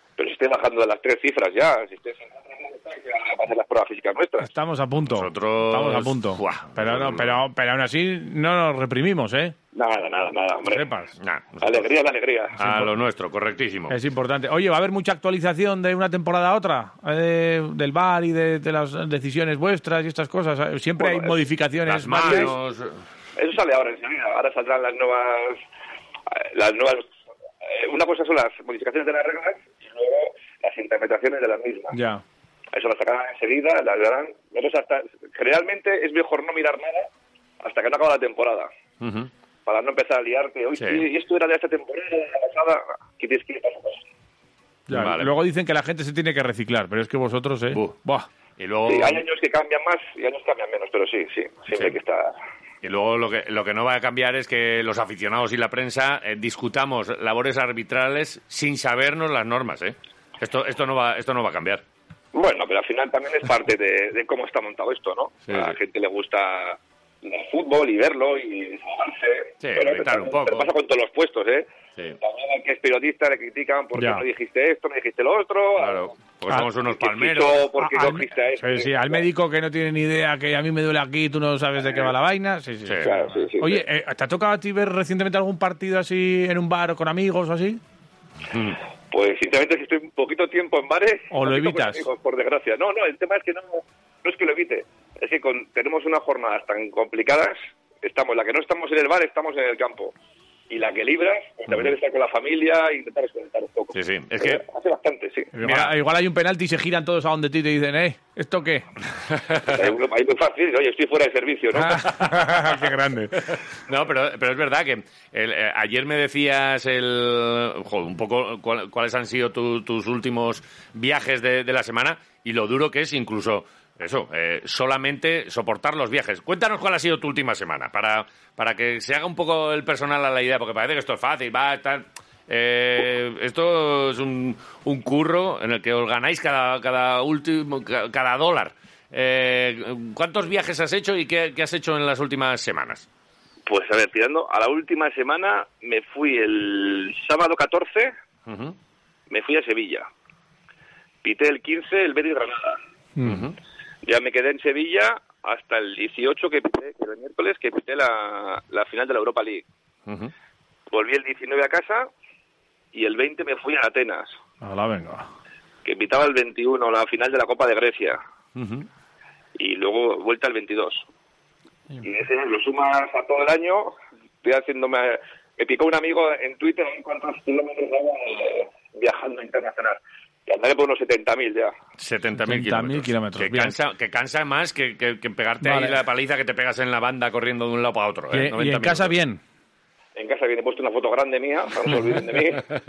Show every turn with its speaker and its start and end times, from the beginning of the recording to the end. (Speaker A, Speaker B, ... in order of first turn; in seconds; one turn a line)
Speaker A: 0.2-4.5
Speaker B: 4.4-9.5
Speaker C: 5.1-7.4
Speaker A: 9.7-10.8
Speaker B: 10.7-11.1
Speaker C: 11.2-11.8
Speaker A: 11.6-12.5
Speaker C: 12.6-13.9
Speaker B: 12.6-12.9
Speaker B: 13.9-22.5
Speaker A: 21.0-21.3
Speaker C: 21.9-23.0
Speaker A: 23.4-25.6
Speaker A: 26.3-27.1
Speaker A: 27.6-32.0
Speaker B: 31.9-32.2
Speaker A: 32.7-37.1
Speaker A: 37.6-38.7
Speaker C: 39.0-39.3
Speaker A: 39.6-44.0
Speaker C: 40.8-41.0
Speaker B: 44.9-48.3
Speaker C: 44.9-45.3
Speaker C: 48.6-49.2
Speaker A: 48.9-52.4
Speaker C: 52.8-61.8
Speaker A: 62.3-71.7
Speaker C: 65.5-65.8
Speaker C: 69.6-70.7
Speaker A: 72.2-76.2
Speaker B: 73.9-74.2
Speaker C: 75.8-77.6
Speaker A: 76.9-79.2
Speaker B: 77.8-87.8
Speaker A: 81.8-82.1
Speaker A: 83.0-83.8
Speaker C: 88.5-88.8
Speaker A: 89.1-100.1
Speaker B: 91.3-92.1
Speaker A: 100.7-105.5
Speaker C: 103.9-104.6
Speaker B: 105.5-108.9
Speaker C: 105.6-105.9
Speaker A: 109.7-112.1
Speaker B: 111.7-113.6
Speaker C: 113.4-143.1
Speaker A: 143.7-148.1
Speaker C: 148.5-148.7
Speaker A: 149.3-150.1
Speaker A: 151.2-152.8
Speaker B: 153.2-153.5
Speaker C: 153.2-153.5
Speaker A: 154.0-159.7
Speaker C: 160.1-160.3
Speaker A: 160.9-162.1
Speaker A: 162.9-164.3
Speaker B: 164.6-165.3
Speaker A: 165.8-168.2
Speaker C: 168.6-168.9
Speaker A: 169.6-171.1
Speaker A: 172.0-181.7
Speaker C: 182.0-189.1
Speaker B: 182.4-183.7
Speaker B: 185.6-186.0
Speaker B: 188.3-189.4
Speaker A: 190.2-192.6